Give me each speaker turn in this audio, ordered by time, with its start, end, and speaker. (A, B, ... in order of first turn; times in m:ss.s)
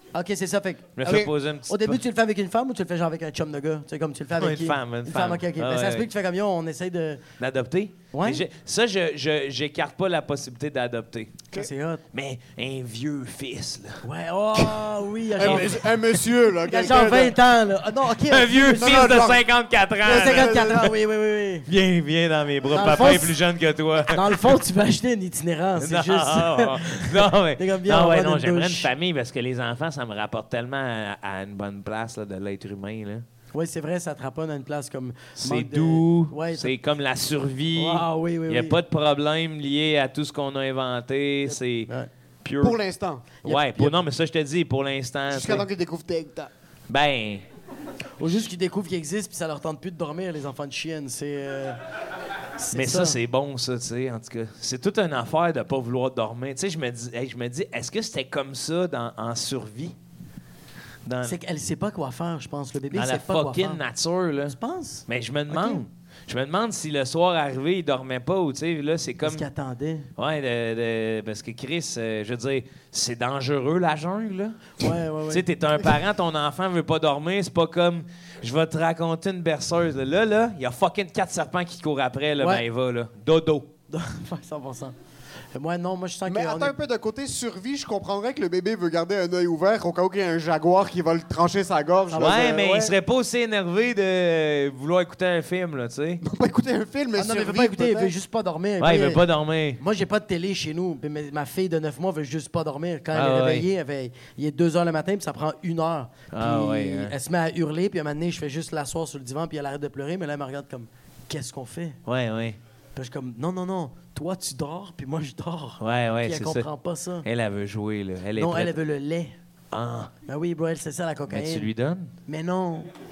0:00.1-0:07.2 A
0:01.0-0:02.0 B
0:01.0-0:01.3 C
0:04.4-0:06.1 B
0:07.4-0:11.4 B
0:08.1-0:08.4 A
0:11.5-0:12.0 A
0:12.1-0:14.0 B
0:14.0-0:15.8 A
0:15.4-0:17.4 C
0:15.4-0:15.8 B
0:16.7-0:19.1 A
0:18.3-0:20.9 B
0:18.8-0:19.4 C
0:20.0-0:20.9 C
0:20.0-0:21.7 A
0:21.7-0:24.6 B
0:22.7-0:23.4 A
0:24.1-0:28.9 A
0:25.8-0:33.2 B
0:33.5-0:36.7 A
0:35.4-0:41.9 B
0:37.8-0:38.8 A
0:41.5-0:42.1 A
0:42.4-0:42.8 B
0:42.6-0:43.2 C
0:43.4-0:44.0 A
0:43.4-0:45.7 B
0:45.3-0:46.5 C
0:46.9-0:47.4 B
0:48.2-0:51.8 A
0:52.6-0:53.2 A
0:52.7-0:59.9 B
1:01.0-1:01.4 B
1:01.2-1:03.8 A
1:02.9-1:04.6 B
1:04.5-1:05.8 A
1:05.1-1:09.4 B
1:09.2-1:10.1 A
1:10.2-1:23.7 B
1:14.8-1:15.8 A
1:22.4-1:22.6 A
1:23.9-1:24.9 A
1:25.5-1:26.8 A
1:26.3-1:32.9 C
1:32.1-1:32.4 A
1:32.1-1:36.2 B
1:36.2-1:38.1 C
1:37.2-1:39.2 A
1:38.8-1:39.8 B
1:39.8-1:52.0 A
1:43.1-1:43.7 B
1:46.3-1:47.1 B
1:52.0-1:52.6 B
1:53.0-1:57.2 A
1:55.8-1:56.7 B
1:57.2-1:58.8 B
1:58.3-1:59.3 A
1:59.7-2:00.1 B
2:00.3-2:01.7 A
2:01.3-2:02.1 B
2:02.3-2:02.9 A